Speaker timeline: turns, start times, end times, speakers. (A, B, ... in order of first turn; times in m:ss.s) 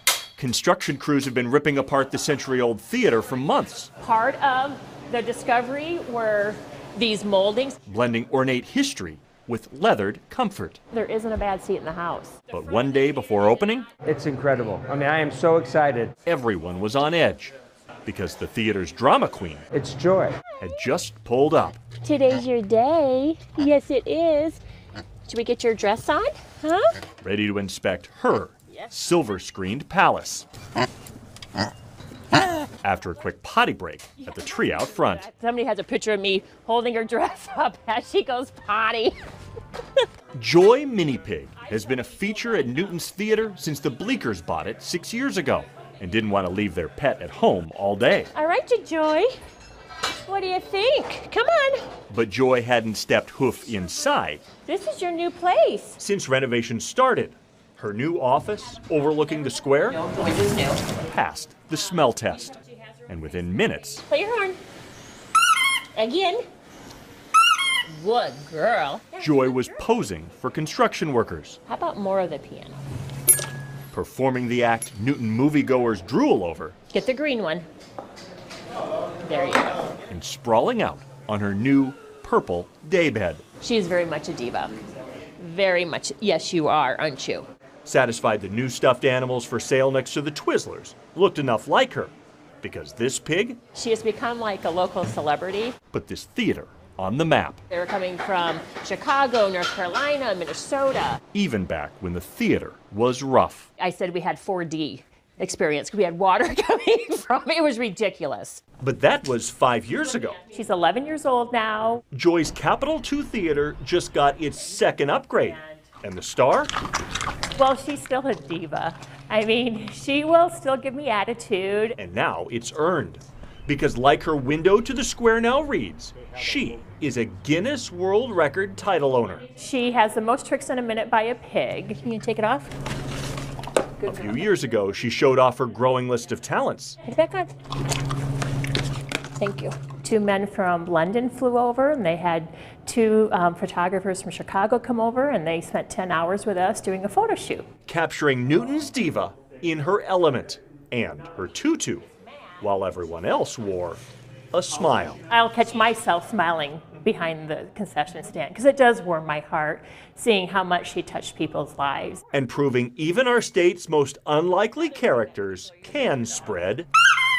0:00.4-0:03.9 A
0:04.0-0:07.8 B
0:07.8-0:10.8 A
0:10.9-0:12.4 B
0:12.5-0:13.9 A
0:14.0-0:16.1 C
0:16.2-0:17.5 A
0:18.0-0:19.6 A
0:19.7-0:20.4 C
0:20.6-0:21.8 A
0:22.0-0:24.6 B
0:25.3-0:27.0 B
0:27.2-0:30.5 A
0:32.8-0:35.2 A
0:34.3-0:39.2 B
0:40.4-0:48.3 A
0:48.3-0:49.3 B
0:50.2-0:51.8 B
0:52.1-0:54.4 A
0:54.6-0:56.0 B
0:56.0-1:00.0 A
0:59.9-1:00.8 B
1:00.9-1:04.0 A
1:04.0-1:04.6 B
1:05.9-1:06.4 B
1:07.9-1:09.8 B
1:09.2-1:11.6 A
1:11.7-1:12.8 B
1:13.9-1:16.8 A
1:16.9-1:17.7 B
1:19.2-1:19.8 B
1:20.1-1:23.4 A
1:23.6-1:24.8 B
1:25.4-1:27.4 B
1:27.8-1:33.6 A
1:33.7-1:35.7 B
1:35.9-1:37.6 A
1:37.7-1:41.2 B
1:41.3-1:43.7 A
1:43.8-1:48.6 B
1:48.8-1:50.4 A
1:49.9-1:52.0 B
1:52.1-1:56.7 A
1:55.3-1:55.8 B
1:57.6-2:02.0 B
2:02.0-2:09.5 A
2:09.6-2:12.7 B
2:14.0-2:14.5 B
2:14.0-2:17.0 A
2:17.0-2:17.5 B
2:19.4-2:27.7 B
2:27.9-2:32.0 A
2:32.6-2:34.0 A
2:34.5-2:35.2 A
2:35.3-2:42.2 B
2:42.3-2:46.9 A